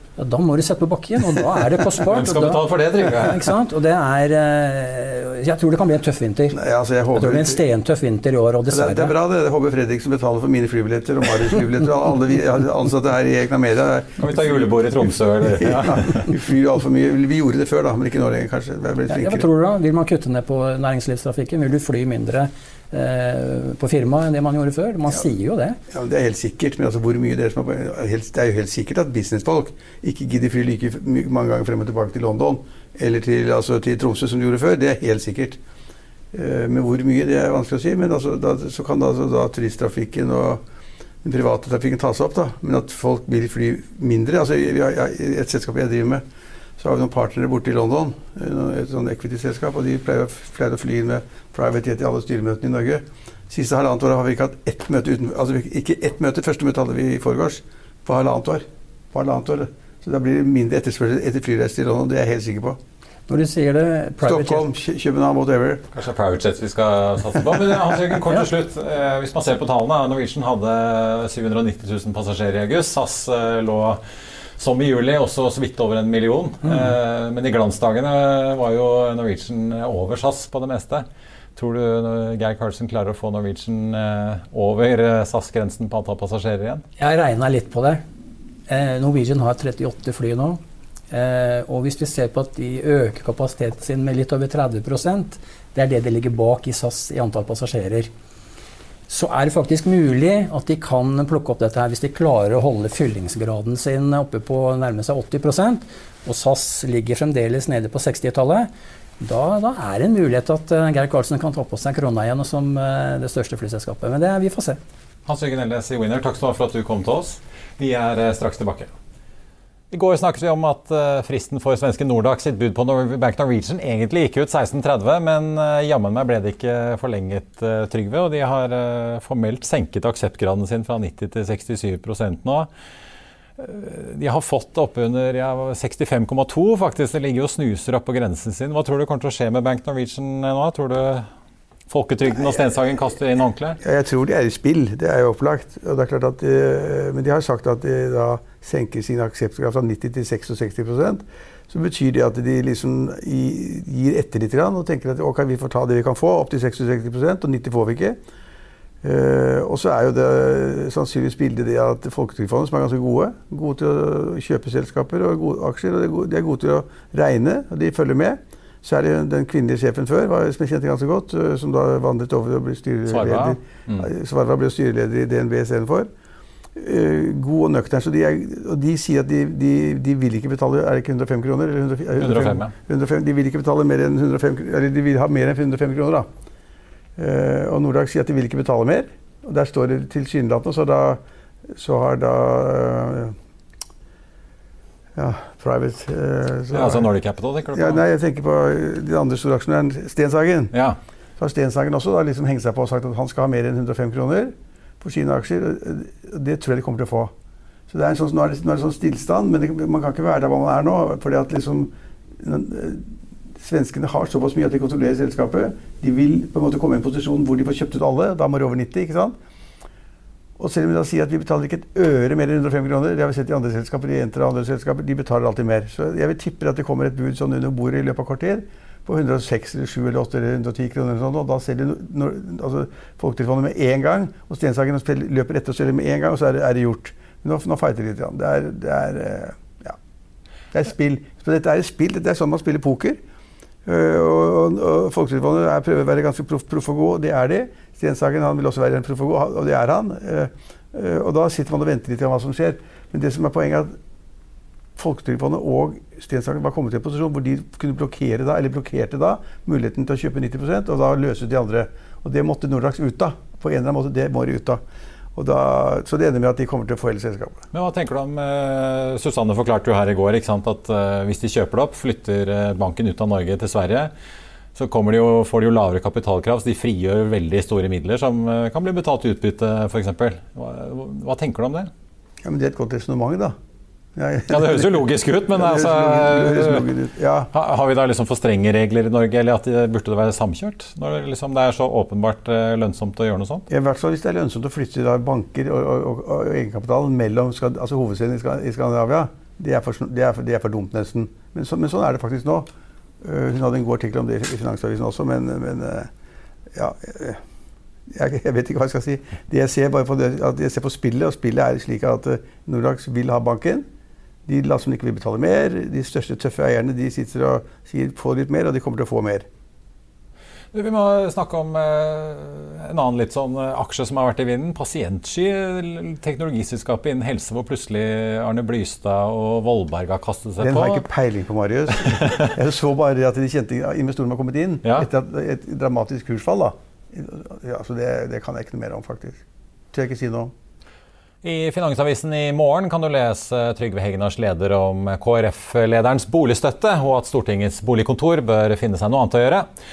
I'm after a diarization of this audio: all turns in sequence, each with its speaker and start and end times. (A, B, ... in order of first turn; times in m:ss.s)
0:00.2-0:06.6 A
0:02.1-0:03.5 B
0:06.5-0:07.6 C
0:07.1-0:09.1 A
0:08.7-0:14.9 C
0:14.2-0:16.3 B
0:15.4-0:19.5 C
0:19.1-0:25.8 A
0:25.9-0:35.6 C
0:36.3-0:40.6 C
0:41.2-0:46.2 C
0:46.8-1:02.8 C
1:03.3-1:04.7 A
1:04.2-1:05.9 C
1:05.9-1:14.0 B
1:14.6-1:26.8 B
1:27.0-1:28.0 A
1:28.7-1:30.6 A
1:31.1-1:38.1 A
1:39.1-1:48.7 A
1:49.2-1:54.8 A
1:55.2-1:58.9 B
1:59.9-2:12.7 B
2:13.6-2:21.3 B
2:21.9-2:23.8 B
2:22.3-2:22.9 C
2:23.8-2:38.2 C
2:39.0-2:56.1 C
2:53.1-2:54.1 B
2:56.8-3:06.3 C
3:02.2-3:02.7 B
3:07.2-3:11.2 C
3:11.7-3:13.4 C
3:15.2-3:17.1 C
3:16.7-3:18.0 B
3:17.7-3:20.7 C
3:20.7-3:21.0 B
3:21.4-3:27.3 C
3:27.9-3:33.1 C
3:33.6-3:39.4 C
3:40.6-4:00.0 C
4:00.7-4:03.2 C
4:03.8-4:13.9 C
4:15.0-4:24.8 C
4:25.4-4:27.6 C
4:27.7-4:34.1 B
4:34.7-4:41.9 B
4:42.4-4:43.6 C
4:44.2-4:47.5 C
4:44.5-4:46.9 B
4:47.5-4:53.7 B
4:53.7-5:02.7 C
5:03.2-5:06.1 C
5:06.7-5:07.4 C
5:08.1-5:13.9 C
5:14.4-5:19.5 C
5:20.7-5:31.0 B
5:30.6-5:40.5 C
5:32.2-5:32.5 B
5:41.4-5:49.7 B